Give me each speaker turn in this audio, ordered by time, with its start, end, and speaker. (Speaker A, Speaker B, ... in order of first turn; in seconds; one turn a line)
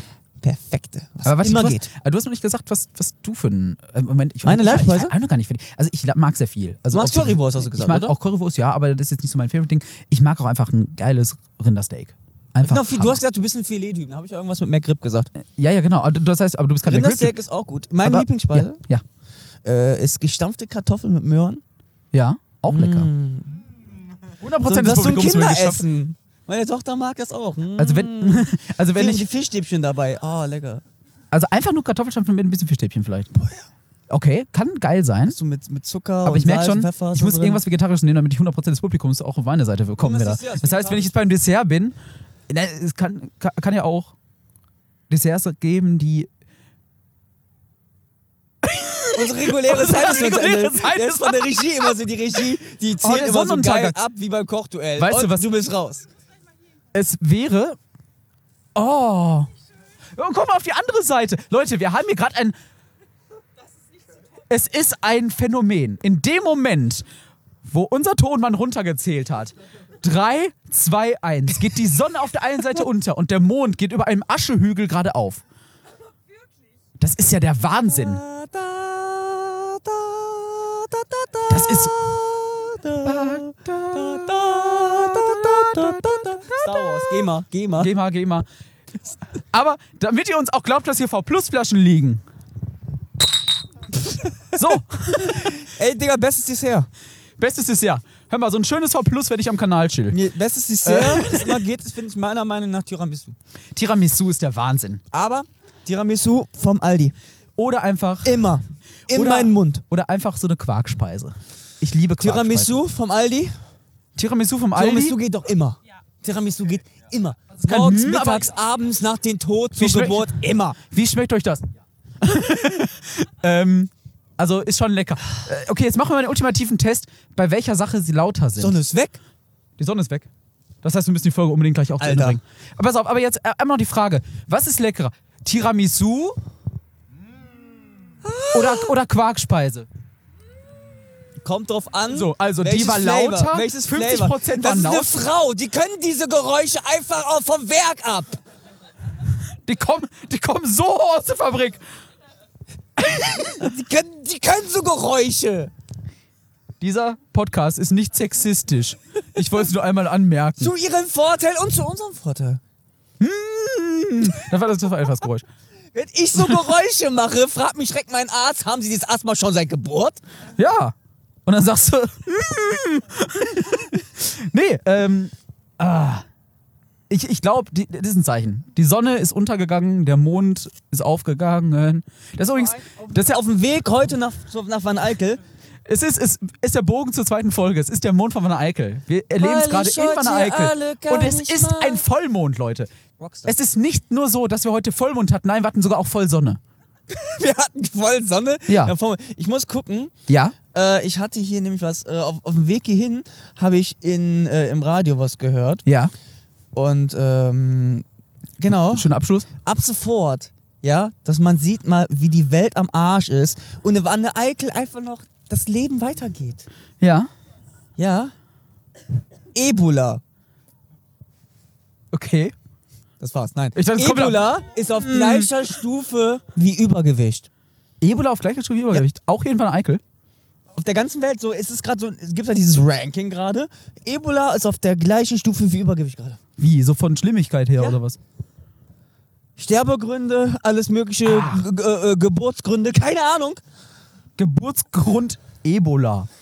Speaker A: 0.4-1.9
Speaker B: 1.2-13.2
Speaker A: 4.4-5.1
Speaker A: 6.9-8.1
Speaker A: 12.6-15.3
Speaker B: 15.4-17.4
Speaker A: 16.9-18.8
Speaker B: 18.0-19.0
Speaker A: 19.6-21.6
Speaker B: 22.1-23.1
Speaker A: 22.7-23.6
Speaker B: 24.4-25.8
Speaker A: 24.6-30.8
Speaker B: 27.8-29.2
Speaker B: 31.3-33.3
Speaker B: 34.1-35.4
Speaker A: 35.2-37.6
Speaker B: 36.2-42.0
Speaker A: 40.0-41.1
Speaker B: 42.5-44.1
Speaker B: 45.1-46.3
Speaker B: 48.6-51.9
Speaker A: 49.1-56.1
Speaker B: 53.0-54.0
Speaker B: 55.0-55.5
Speaker B: 56.9-57.8
Speaker B: 58.7-59.5
Speaker B: 60.1-62.5
Speaker B: 64.5-67.0
Speaker B: 67.7-75.4
Speaker B: 77.0-78.2
Speaker A: 77.9-87.9
Speaker B: 81.5-81.9
Speaker B: 83.0-87.2
Speaker B: 87.8-88.5
Speaker B: 89.5-92.2
Speaker A: 94.0-96.9
Speaker B: 94.5-95.5
Speaker B: 97.4-100.2
Speaker A: 100.1-103.4
Speaker B: 100.8-101.6
Speaker B: 103.7-105.0
Speaker A: 105.1-107.1
Speaker B: 107.6-108.5
Speaker A: 108.2-109.8
Speaker B: 109.1-112.8
Speaker A: 112.2-113.5
Speaker B: 114.2-115.2
Speaker A: 114.7-120.8
Speaker B: 117.6-118.5
Speaker B: 119.8-121.7
Speaker B: 122.2-128.7
Speaker A: 128.6-129.2
Speaker B: 129.8-130.3
Speaker B: 130.8-136.4
Speaker A: 132.0-132.4
Speaker A: 138.2-138.9
Speaker B: 138.5-139.9
Speaker A: 141.4-148.4
Speaker B: 142.1-145.2
Speaker B: 149.6-151.8
Speaker B: 153.0-153.6
Speaker A: 153.2-155.7
Speaker B: 156.8-160.7
Speaker A: 160.6-162.6
Speaker B: 163.2-165.4
Speaker A: 165.9-170.2
Speaker B: 170.6-170.9
Speaker B: 171.4-176.2
Speaker B: 177.1-183.4
Speaker A: 182.6-185.4
Speaker B: 185.9-192.9
Speaker A: 189.4-192.0
Speaker A: 193.2-193.6
Speaker B: 193.5-196.6
Speaker A: 197.1-200.1
Speaker B: 198.7-198.9
Speaker B: 200.3-200.6
Speaker A: 200.7-205.8
Speaker B: 205.8-206.1
Speaker A: 206.7-208.0
Speaker A: 208.6-209.1
Speaker B: 208.9-209.5
Speaker A: 209.6-216.7
Speaker B: 217.0-217.3
Speaker A: 218.0-218.3
Speaker A: 219.5-220.2
Speaker B: 222.1-222.5
Speaker A: 223.2-227.5
Speaker B: 223.7-225.6
Speaker B: 228.0-230.0
Speaker A: 230.7-236.4
Speaker B: 236.6-238.2
Speaker A: 239.6-243.6
Speaker B: 241.2-241.7
Speaker B: 244.4-246.3